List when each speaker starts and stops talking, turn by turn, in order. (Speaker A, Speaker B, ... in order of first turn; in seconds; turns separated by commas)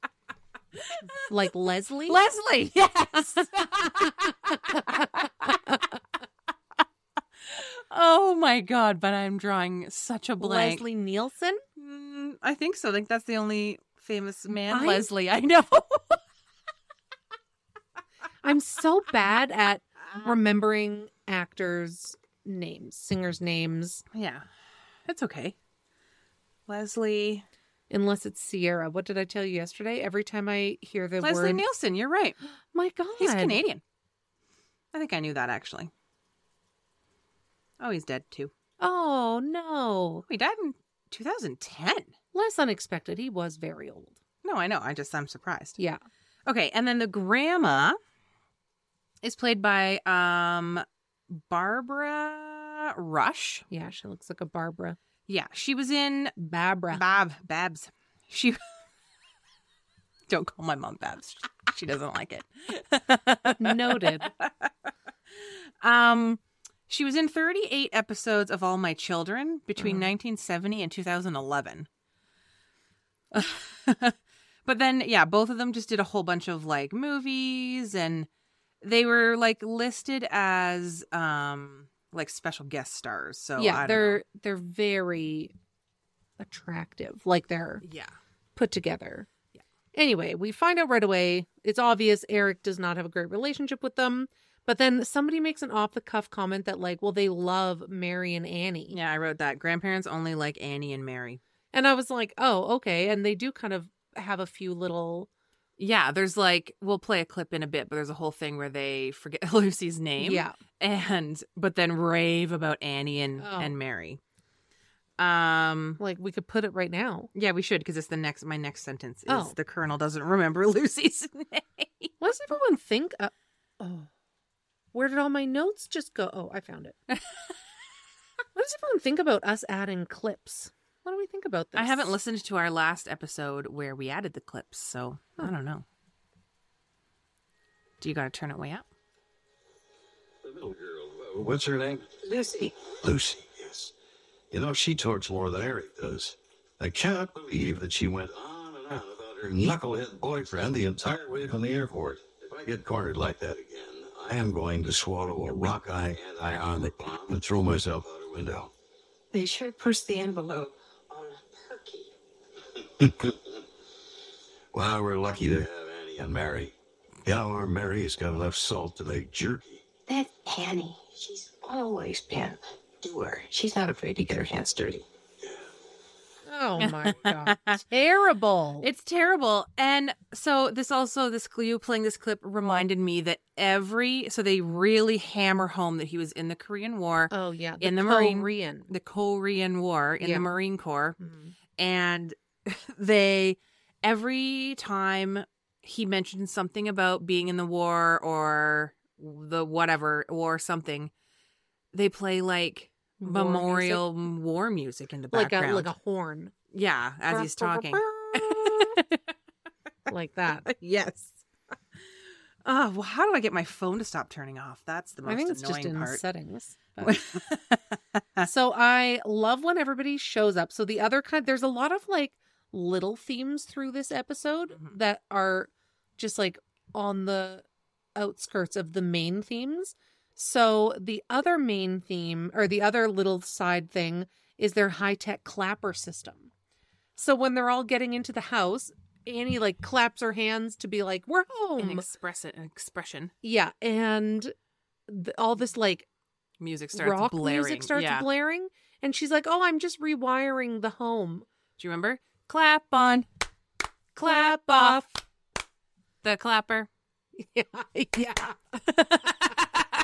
Speaker A: 0.8-1.3, Speaker B: 1.2-2.2, Speaker A: 2.1-5.5, Speaker B: 3.8-4.1, Speaker B: 4.8-5.0, Speaker A: 7.4-10.8, Speaker B: 10.4-11.6, Speaker A: 11.8-16.2, Speaker B: 14.7-15.1, Speaker B: 18.4-24.0, Speaker A: 24.1-24.4, Speaker A: 25.1-25.5, Speaker A: 26.7-27.4, Speaker B: 27.9-31.6, Speaker A: 31.2-32.4, Speaker B: 32.7-33.6, Speaker A: 33.2-33.8, Speaker A: 34.9-35.9, Speaker A: 37.8-38.5, Speaker B: 38.8-40.2, Speaker A: 40.3-42.1, Speaker B: 42.3-44.2, Speaker A: 44.4-45.8, Speaker A: 46.5-48.0, Speaker A: 49.2-53.6, Speaker B: 53.7-55.0, Speaker A: 55.3-56.3, Speaker B: 56.4-57.0, Speaker A: 56.9-58.6, Speaker A: 60.3-64.7, Speaker B: 63.5-64.3, Speaker A: 65.3-71.9, Speaker B: 69.8-70.0, Speaker A: 73.3-78.3, Speaker A: 78.8-84.2, Speaker B: 83.6-85.5, Speaker B: 86.4-87.8, Speaker A: 87.8-88.1, Speaker B: 88.5-89.3, Speaker B: 89.9-99.0, Speaker A: 98.9-101.4, Speaker B: 101.7-105.3, Speaker A: 105.8-114.2, Speaker B: 110.2-110.5, Speaker B: 113.4-113.7, Speaker A: 115.2-116.0, Speaker B: 116.0-117.3, Speaker A: 117.3-122.1, Speaker B: 119.3-119.5, Speaker B: 122.2-124.1, Speaker B: 124.9-127.0, Speaker B: 128.5-132.2, Speaker A: 131.8-135.8, Speaker A: 138.0-138.8, Speaker C: 140.4-142.2, Speaker D: 142.2-142.8, Speaker C: 143.0-143.9, Speaker C: 144.5-158.7, Speaker D: 159.3-162.1, Speaker C: 163.0-163.3, Speaker C: 164.7-166.7, Speaker C: 167.2-169.8, Speaker D: 170.1-175.0, Speaker B: 176.4-178.8, Speaker A: 176.8-177.8, Speaker A: 178.8-191.2, Speaker B: 187.3-188.9, Speaker B: 190.2-190.5, Speaker B: 191.2-191.5, Speaker A: 191.8-201.1, Speaker A: 201.9-205.9, Speaker B: 203.2-204.1, Speaker B: 205.3-206.5, Speaker A: 206.7-209.2, Speaker B: 207.3-209.0, Speaker B: 210.1-210.7, Speaker A: 210.6-211.3, Speaker A: 212.6-216.2, Speaker B: 215.2-217.2, Speaker A: 217.0-218.5, Speaker B: 218.4-227.6, Speaker B: 228.2-236.5, Speaker B: 237.2-242.0, Speaker A: 241.8-243.3, Speaker B: 243.4-244.5, Speaker B: 245.1-246.1, Speaker A: 246.6-248.2, Speaker B: 246.9-251.4, Speaker A: 251.8-253.3, Speaker B: 254.2-255.1, Speaker A: 254.3-254.9, Speaker A: 256.2-256.9, Speaker B: 257.4-259.6, Speaker A: 258.9-259.7